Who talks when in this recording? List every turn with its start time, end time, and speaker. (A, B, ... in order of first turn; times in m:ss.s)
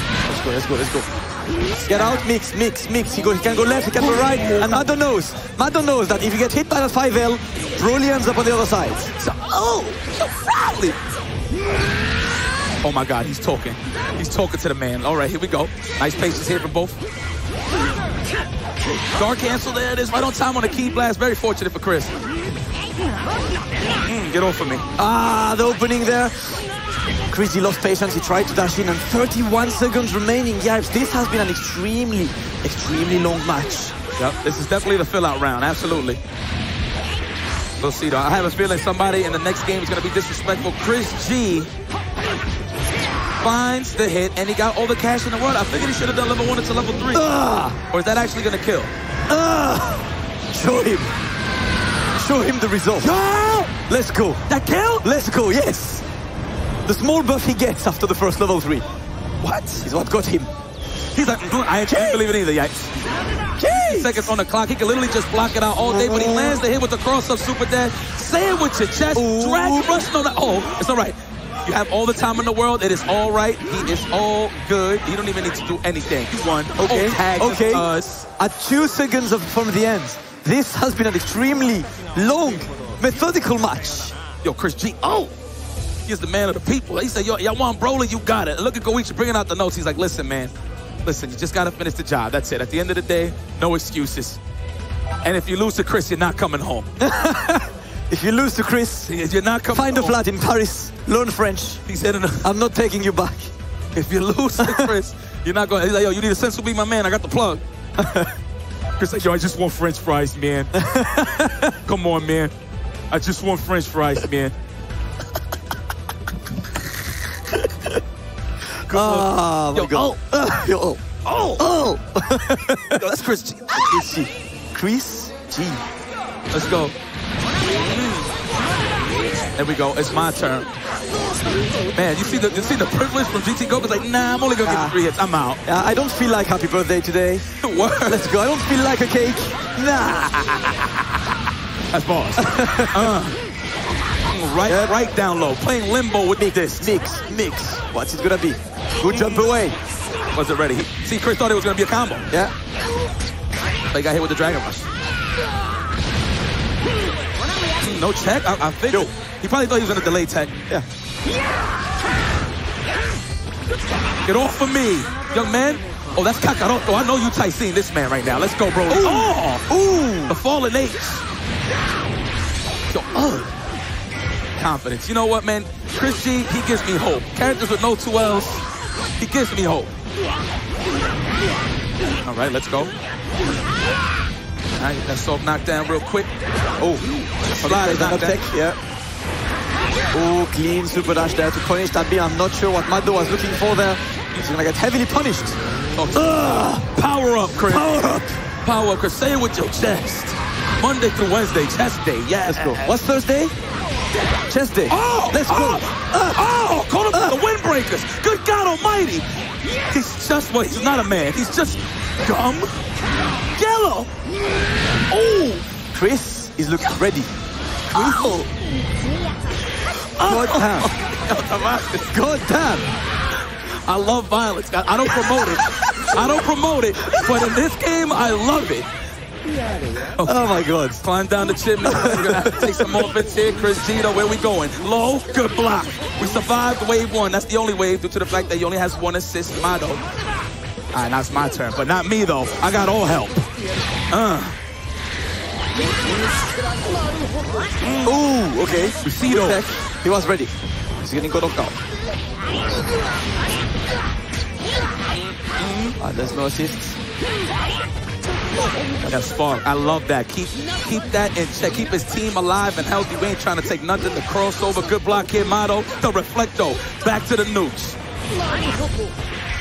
0:00.2-0:01.1 A
0:01.8-0:09.1 A
0:04.0-0:04.9 B
0:09.2-0:11.0 B
0:12.8-0:17.0 B
0:19.1-0:22.1 B
0:24.0-0:24.8 B
0:25.0-0:26.6 A
0:27.3-0:33.9 A
0:34.2-0:36.2 B
0:37.8-0:41.7 B
0:43.4-0:47.2 B
0:47.1-0:47.8 A
0:47.9-0:48.9 B
0:49.3-0:51.1 A
0:52.1-0:53.1 A
0:53.0-0:53.7 B
0:53.7-0:54.4 A
0:54.5-0:55.0 B
0:55.0-0:56.0 A
0:56.8-0:58.8 A
0:59.4-0:59.8 B
0:59.8-1:00.5 A
1:01.1-1:02.9 B
1:01.9-1:02.2 A
1:03.6-1:04.3 A
1:03.7-1:18.3 B
1:05.9-1:06.6 A
1:09.1-1:10.1 A
1:16.8-1:24.1 A
1:24.4-1:25.3 B
1:26.0-1:30.5 B
1:31.0-1:34.4 B
1:35.2-1:36.9 B
1:37.0-1:39.1 A
1:39.0-1:40.2 B
1:39.7-1:41.8 A
1:41.9-1:42.5 B
1:42.4-1:43.5 A
1:43.9-1:47.6 B
1:44.6-1:44.9 A
1:48.0-1:48.3 A
1:49.0-1:50.7 B
1:50.7-1:51.7 A
1:51.8-1:52.5 B
1:53.1-1:54.5 B
1:58.8-2:00.3 B
1:58.9-2:01.0 A
2:01.2-2:01.6 B
2:01.6-2:03.1 A
2:03.0-2:04.0 B
2:03.7-2:05.8 A
2:06.5-2:06.9 B
2:07.8-2:08.3 B
2:09.6-2:10.7 B
2:11.9-2:15.6 B
2:14.6-2:15.0 A
2:15.6-2:17.4 A
2:17.6-2:18.3 B
2:18.0-2:20.8 A
2:21.9-2:23.4 B
2:22.4-2:23.2 A
2:24.3-2:26.9 B
2:24.6-2:25.0 A
2:26.4-2:29.8 A
2:29.0-2:29.5 B
2:30.3-2:32.2 B
2:33.9-2:34.9 B
2:37.8-2:40.5 B
2:44.2-2:49.6 B
2:48.9-2:50.4 A
2:50.3-2:51.2 B
2:52.9-2:53.5 B
2:54.6-2:58.6 B
2:59.2-2:59.9 B
3:02.2-3:02.9 B
3:04.8-3:06.3 B
3:07.6-3:08.8 A
3:07.6-3:08.4 B
3:10.1-3:15.6 A
3:16.0-3:18.1 B
3:16.2-3:16.8 A
3:17.7-3:18.3 A
3:18.6-3:22.9 B
3:22.5-3:23.5 A
3:24.5-3:26.5 A
3:24.9-3:32.7 B
3:27.1-3:27.4 A
3:33.5-3:34.1 B
3:35.1-3:35.6 B
3:35.9-3:37.3 A
3:37.9-3:38.4 B
3:37.9-3:38.5 A
3:40.0-3:42.1 B
3:40.2-3:40.9 A
3:42.1-3:42.8 A
3:43.8-3:48.9 B
3:50.1-4:00.0 B
3:50.2-3:51.0 A
3:51.8-3:53.1 A
4:00.9-4:03.5 B
4:04.1-4:04.6 B
4:07.8-4:08.2 B
4:08.0-4:10.5 A
4:09.0-4:09.6 B
4:11.0-4:11.8 A
4:15.3-4:16.0 B
4:16.0-4:17.0 A
4:19.0-4:28.0 B